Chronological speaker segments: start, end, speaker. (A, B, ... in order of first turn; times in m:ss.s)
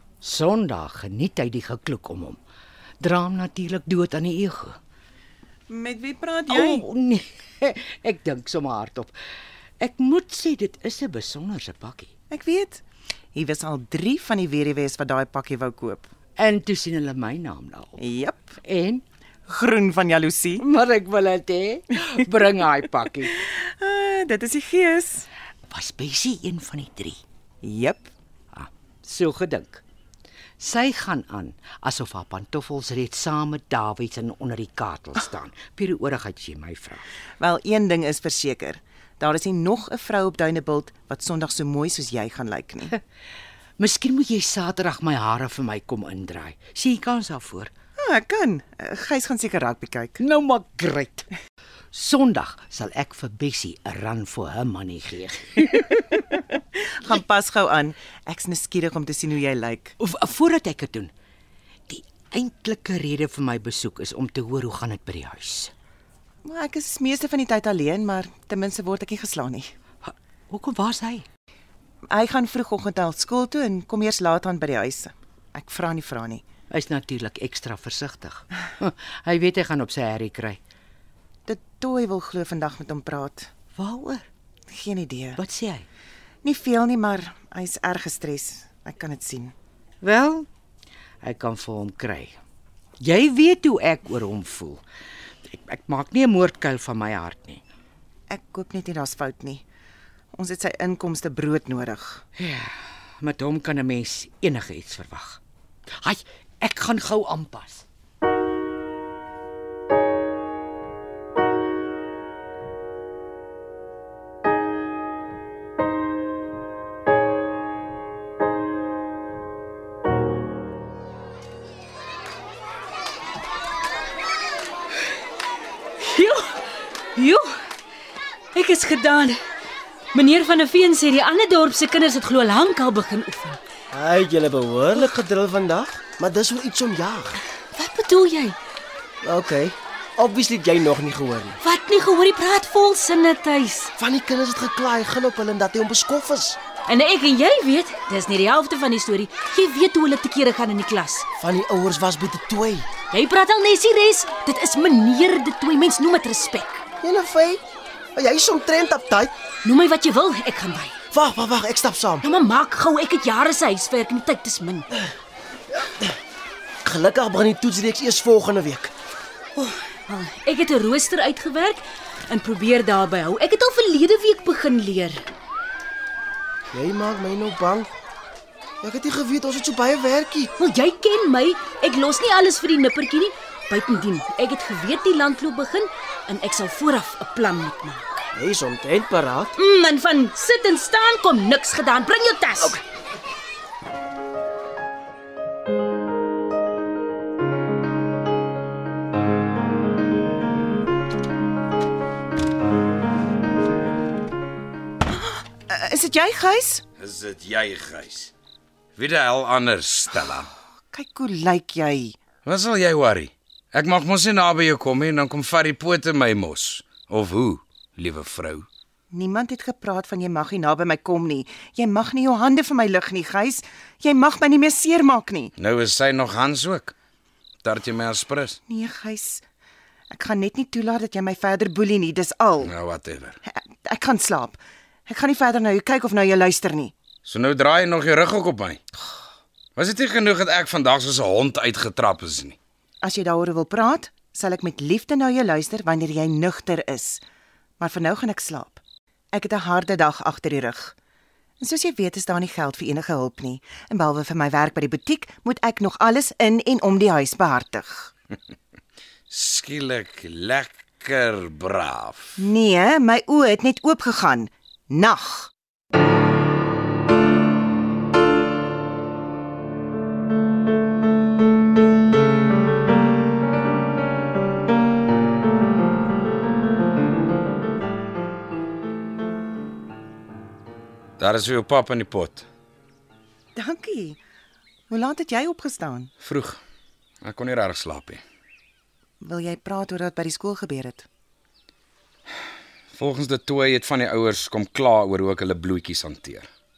0:00.3-0:02.3 A
0:03.0-0:04.6 A
0:05.7-0:06.9 B
0:06.5-0:07.0 C
0:07.9-0:09.0 A
0:09.9-0:11.9 A
0:12.3-0:12.8 B
0:13.4-0:16.1 B
0:16.4-0:17.8 A
0:18.0-0:18.6 B
0:19.5-0:20.6 B
0:20.6-0:20.9 C
0:21.0-0:21.5 A
0:21.7-0:23.0 C
0:23.3-0:25.3 B
0:25.7-0:27.1 A
0:27.6-0:28.1 B
0:29.2-0:29.6 A
0:30.6-0:36.9 A
0:37.4-0:43.0 B
0:43.8-0:47.6 A
0:48.0-0:50.2 B
0:50.2-0:50.8 C
0:50.8-0:51.0 A
0:51.9-0:55.3 A
0:56.8-1:00.0 B
1:00.2-1:01.0 A
1:02.1-1:05.6 A
1:06.4-1:09.7 B
1:10.5-1:11.1 A
1:12.1-1:16.4 B
1:16.8-1:18.3 A
1:19.3-1:20.5 A
1:21.5-1:23.5 B
1:24.7-1:25.4 B
1:26.4-1:29.5 B
1:31.3-1:32.2 A
1:33.1-1:34.6 A
1:35.5-1:37.5 A
1:38.3-1:39.6 B
1:40.3-1:42.2 B
1:43.6-1:45.2 A
1:47.4-1:47.7 A
2:06.1-2:06.5 C
2:07.2-2:07.5 C
2:08.6-2:09.3 C
2:10.2-2:13.6 C
2:13.9-2:17.4 D
2:17.8-2:18.6 C
2:19.2-2:21.6 D
2:21.7-2:23.9 C
2:24.0-2:26.6 D
2:26.9-2:31.2 C
2:31.4-2:32.9 D
2:33.1-2:36.8 C
2:37.0-2:37.6 D
2:38.2-2:39.3 D
2:39.7-2:40.9 C
2:41.1-2:42.3 D
2:42.2-2:44.8 C
2:45.8-2:46.1 D
2:46.8-2:48.9 D
2:49.6-2:55.2 C
2:56.7-2:57.9 D
2:58.8-3:00.5 D
3:00.6-3:08.1 C
3:08.3-3:09.5 D
3:09.6-3:12.8 C
3:25.2-3:26.8 B
3:27.0-3:28.3 E
3:29.0-3:30.5 E
3:30.9-3:32.2 B
3:32.4-3:38.7 E
3:39.1-3:45.5 B
3:45.6-3:46.9 E
3:47.6-3:48.6 E
3:48.7-3:49.4 B
3:50.1-3:52.7 B
3:52.6-3:53.4 E
3:53.4-3:56.9 B
3:57.3-3:58.8 E
3:59.8-4:02.6 E
4:03.0-4:07.2 B
4:07.8-4:08.8 B
4:09.3-4:11.0 B
4:11.6-4:18.1 B
4:19.3-4:22.4 E
4:22.4-4:25.5 B
4:41.2-4:42.5 E
4:43.6-4:44.2 B
4:44.9-4:46.1 B
4:46.2-4:46.6 E
4:47.2-4:48.2 E
4:49.2-4:51.1 B
4:52.9-4:56.5 E